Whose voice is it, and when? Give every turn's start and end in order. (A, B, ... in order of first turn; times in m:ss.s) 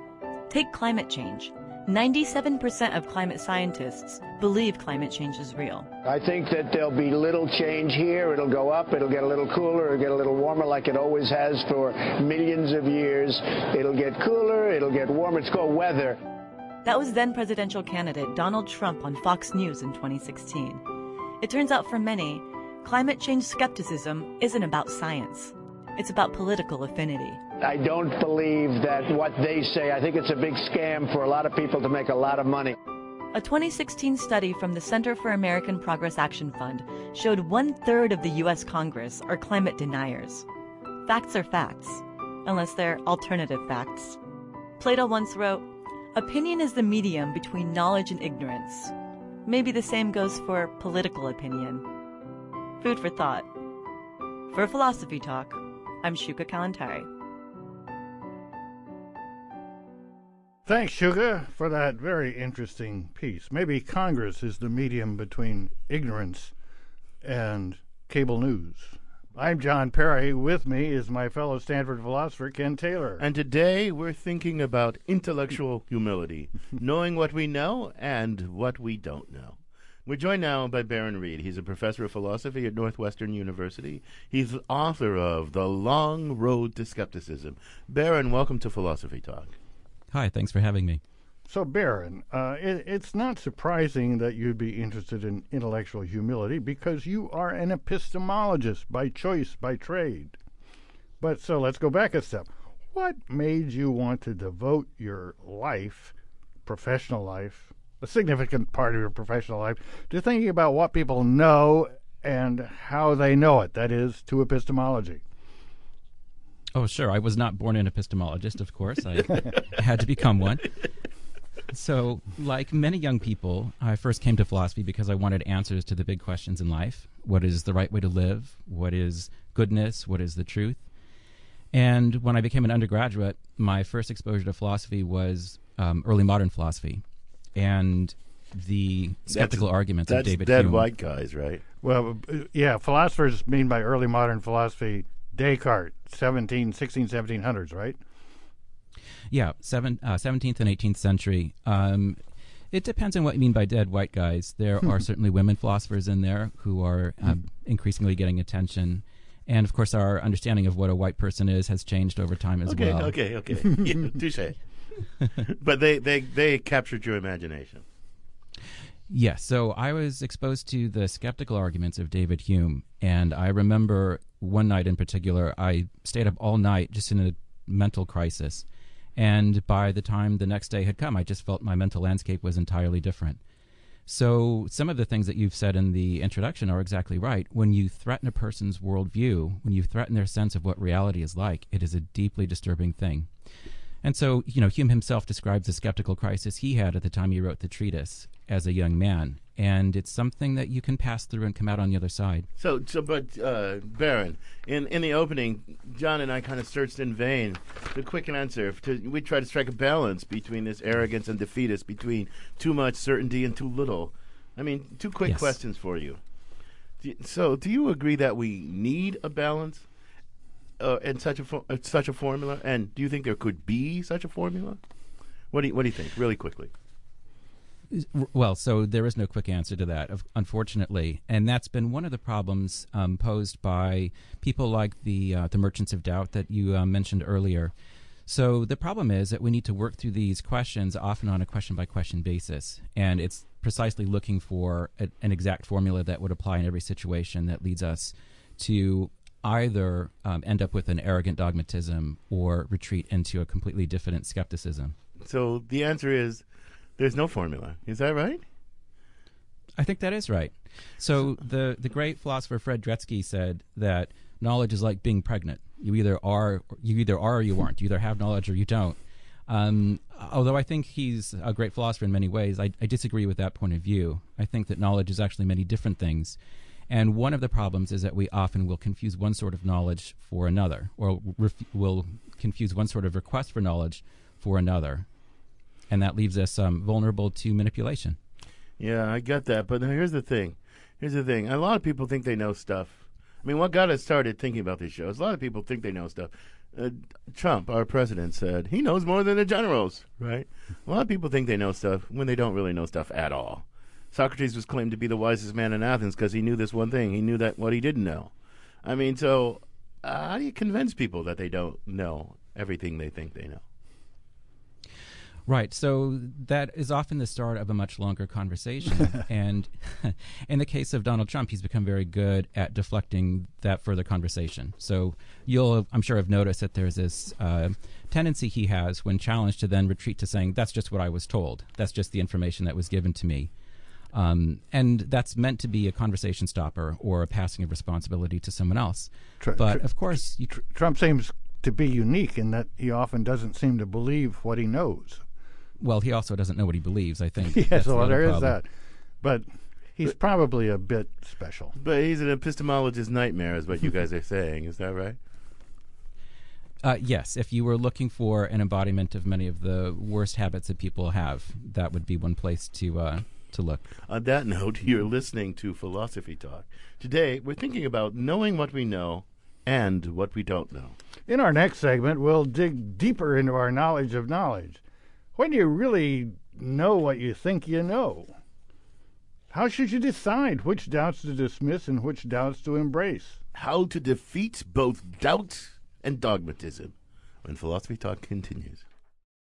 0:00.5-0:05.9 A
0:06.0-0:16.2 B
0:16.8-0:20.8 A
0:21.4-0:27.4 A
0:27.6-0:32.7 B
0:33.3-0:40.4 A
0:41.0-0:44.2 A
0:44.8-0:48.9 A
0:49.4-0:51.8 A
0:52.8-0:53.4 A
0:54.5-0:57.1 A
1:00.6-1:06.5 C
1:07.2-1:13.2 C
1:13.2-1:29.5 D
1:30.1-1:31.0 E
1:31.5-1:40.4 C
1:41.2-1:46.1 C
1:46.6-1:55.2 C
1:56.7-2:00.7 E
2:01.7-2:10.8 E
2:11.7-2:17.0 E
2:17.5-2:20.9 E
2:19.3-2:21.6 D
2:21.8-2:28.0 C
2:29.3-2:32.2 E
2:32.7-2:43.2 E
2:42.6-2:44.6 D
2:45.5-2:47.8 D
2:49.1-3:03.4 E
3:04.1-3:13.3 E
3:14.0-3:22.5 E
3:22.6-3:36.2 D
3:35.2-3:35.6 E
3:37.0-3:39.8 D
3:40.8-3:44.8 D
3:45.5-3:46.7 D
3:47.9-3:57.7 E
3:58.2-4:14.9 E
4:15.2-4:16.4 D
4:17.0-4:18.4 D
4:19.8-4:36.4 E
4:36.9-4:45.0 E
4:45.9-4:48.2 E
4:48.8-5:08.3 D
5:08.8-5:13.6 D
5:15.5-5:33.5 E
5:34.1-5:40.5 E
5:39.4-5:45.2 C
5:45.8-5:48.6 E
5:47.4-5:48.6 C
5:49.2-5:51.7 C
5:51.8-5:55.2 D
5:56.8-6:03.9 E
6:04.0-6:11.0 D
6:11.3-6:14.8 C
6:15.4-6:18.3 C
6:19.5-6:23.4 C
6:23.5-6:28.8 D